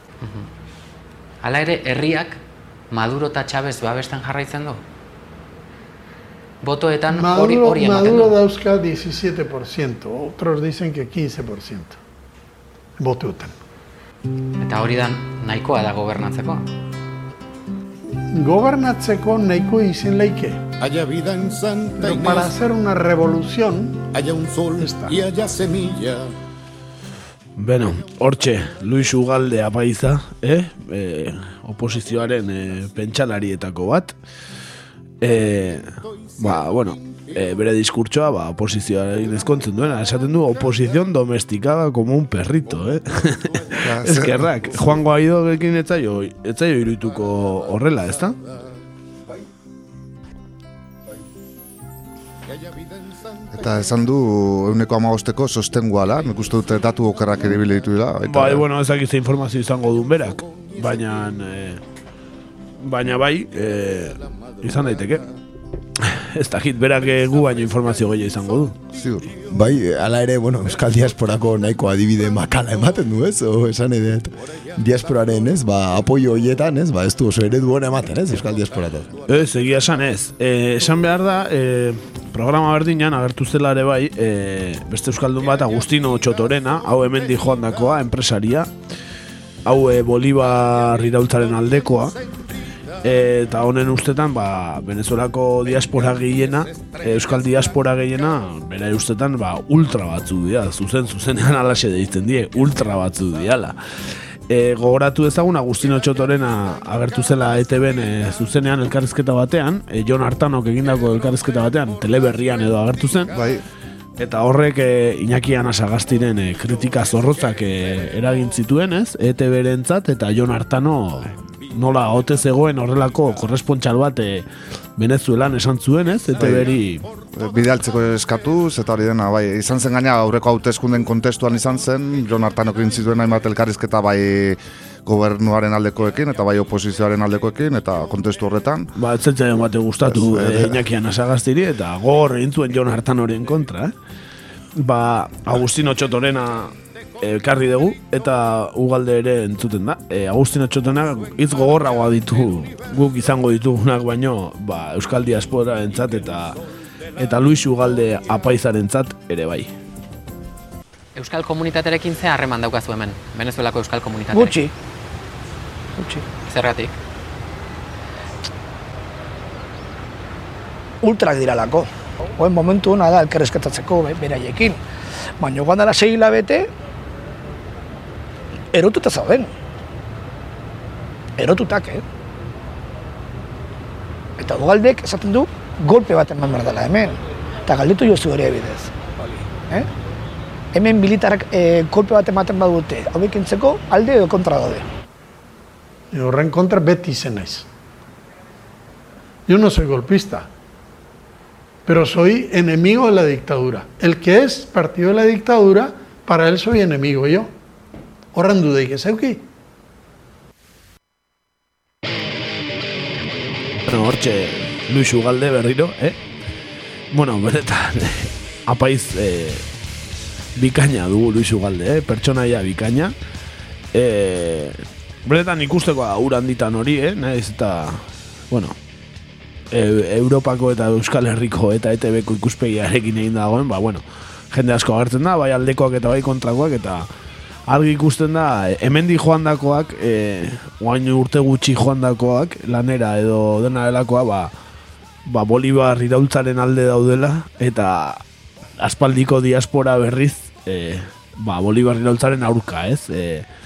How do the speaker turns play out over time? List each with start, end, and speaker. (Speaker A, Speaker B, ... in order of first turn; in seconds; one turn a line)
Speaker A: 1.4-4.8
Speaker A: 6.6-8.3
Speaker B: 7.1-12.0
Speaker B: 13.0-13.5
Speaker A: 14.6-16.6
Speaker B: 18.3-20.6
Speaker C: 20.8-22.5
Speaker B: 22.0-24.1
Speaker C: 24.1-26.3
Speaker B: 24.8-25.2
Speaker D: 27.6-34.1
Speaker D: 35.2-35.9
Speaker D: 36.4-48.4
Speaker E: 43.8-44.5
Speaker E: 53.5-58.6
Speaker D: 58.2-61.8
Speaker D: 62.8-65.2
Speaker D: 66.0-68.8
Speaker E: 68.9-69.4
Speaker F: 69.5-79.1
Speaker D: 79.3-88.7
Speaker D: 89.6-92.1
Speaker D: 93.0-103.8
Speaker D: 104.5-113.3
Speaker E: 113.3-113.6
Speaker D: 114.2-124.5
Speaker D: 125.0-127.0
Speaker E: 126.4-126.7
Speaker E: 127.3-138.9
Speaker D: 138.9-143.9
Speaker E: 140.1-140.8
Speaker D: 144.8-156.6
Speaker D: 157.2-159.7
Speaker A: 161.1-164.6
Speaker G: 164.3-164.7
Speaker G: 166.0-166.2
Speaker A: 166.4-166.9
Speaker G: 171.0-174.8
Speaker G: 175.4-176.7
Speaker G: 178.7-179.5
Speaker G: 181.4-182.0
Speaker G: 184.4-189.9
Speaker G: 190.7-194.8
Speaker B: 196.1-197.7
Speaker B: 199.5-200.5
Speaker B: 201.9-207.5
Speaker B: 208.3-209.4
Speaker D: 213.8-216.2
Speaker D: 217.1-219.6
Speaker D: 220.6-223.1
Speaker D: 223.9-228.8
Speaker D: 229.7-237.1
Speaker D: 237.7-244.5
Speaker D: 245.2-248.2
Speaker D: 248.8-253.4